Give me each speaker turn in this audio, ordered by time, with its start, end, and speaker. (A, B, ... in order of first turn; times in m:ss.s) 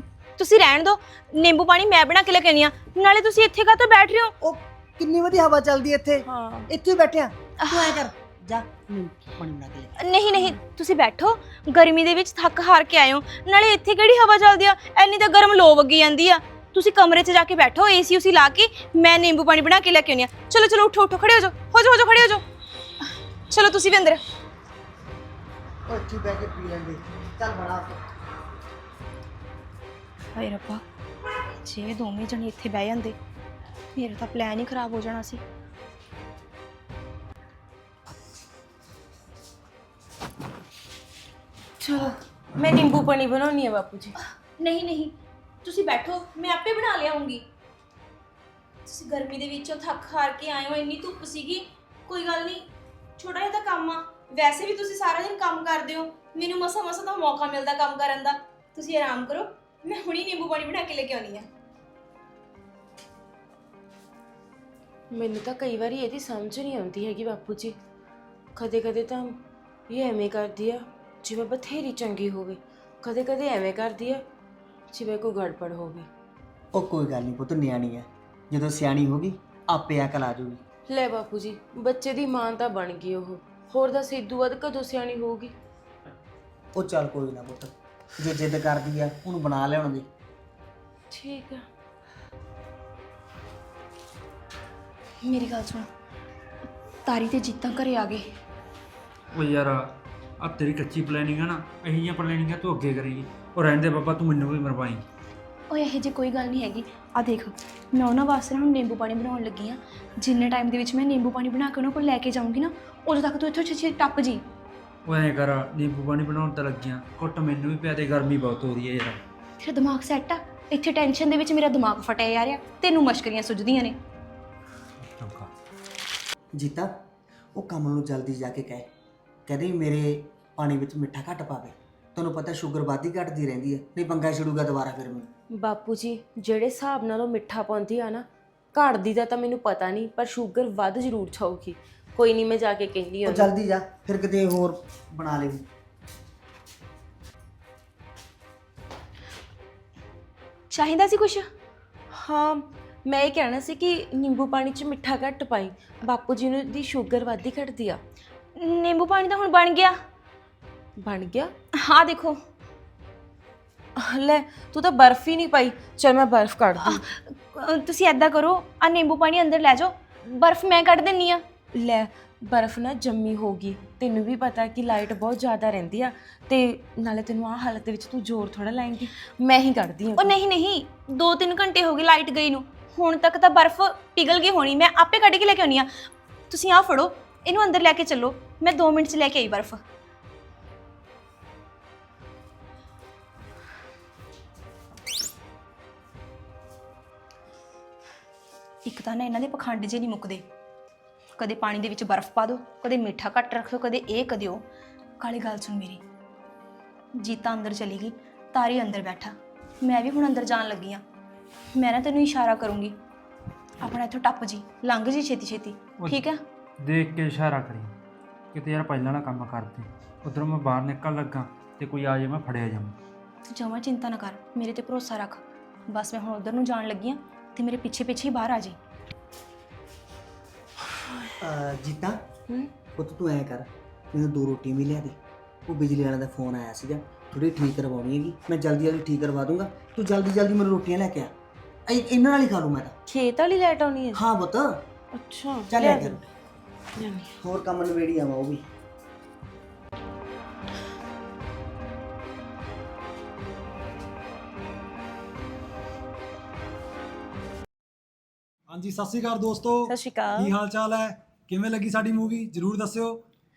0:00.4-0:04.3 A
0:04.4-0:10.0 B
0:06.3-0:06.7 C
0:07.6-0:08.0 A
0:10.0-0:22.4 A
0:23.5-0:24.2 A
0:25.9-0:28.0 B
0:30.4-0:30.8 A
0:31.6-0:33.2 A
0:34.0-0:35.4 A
0:41.8-0:44.2 C
0:44.6-0:47.4 A
0:48.9-0:52.7 A
0:53.2-1:01.5 A
1:05.1-1:07.8 C
1:08.6-1:09.4 C
1:09.9-1:14.2 C
1:14.9-1:16.1 C
1:16.7-1:20.6 B
1:20.9-1:25.5 C
1:26.8-1:30.1 B
1:31.1-1:31.6 C
1:35.2-1:35.9 A
1:37.1-1:38.3 A
1:39.3-1:45.0 D
1:45.7-1:54.4 A
1:55.0-1:59.2 D
1:59.6-2:04.0 A
2:05.0-2:05.5 D
2:06.6-2:06.9 B
2:07.6-2:08.9 B
2:09.5-2:15.3 B
2:15.6-2:23.5 C
2:23.2-2:25.6 B
2:30.7-2:31.5 A
2:32.1-2:38.0 C
2:38.6-2:40.0 A
2:41.0-2:41.5 C
2:41.8-2:42.4 A
2:44.0-2:47.0 C
2:46.8-2:51.4 A
2:51.8-3:00.3 C
3:00.2-3:05.9 A
3:06.5-3:09.8 A
3:18.9-3:20.4 A
3:21.4-3:24.6 A
3:25.2-3:26.0 A
3:27.2-3:31.0 A
3:31.8-3:32.9 A
3:33.8-3:36.4 A
3:36.8-3:37.9 D
3:38.5-3:43.0 D
3:43.5-3:48.8 A
3:51.4-3:52.2 B
3:53.0-4:01.3 B
4:01.9-4:02.9 B
4:03.1-4:04.2 C
4:04.1-4:04.8 B
4:05.2-4:06.3 C
4:05.7-4:06.2 B
4:07.0-4:07.3 C
4:07.4-4:08.7 B
4:18.7-4:23.2 E
4:19.9-4:20.5 C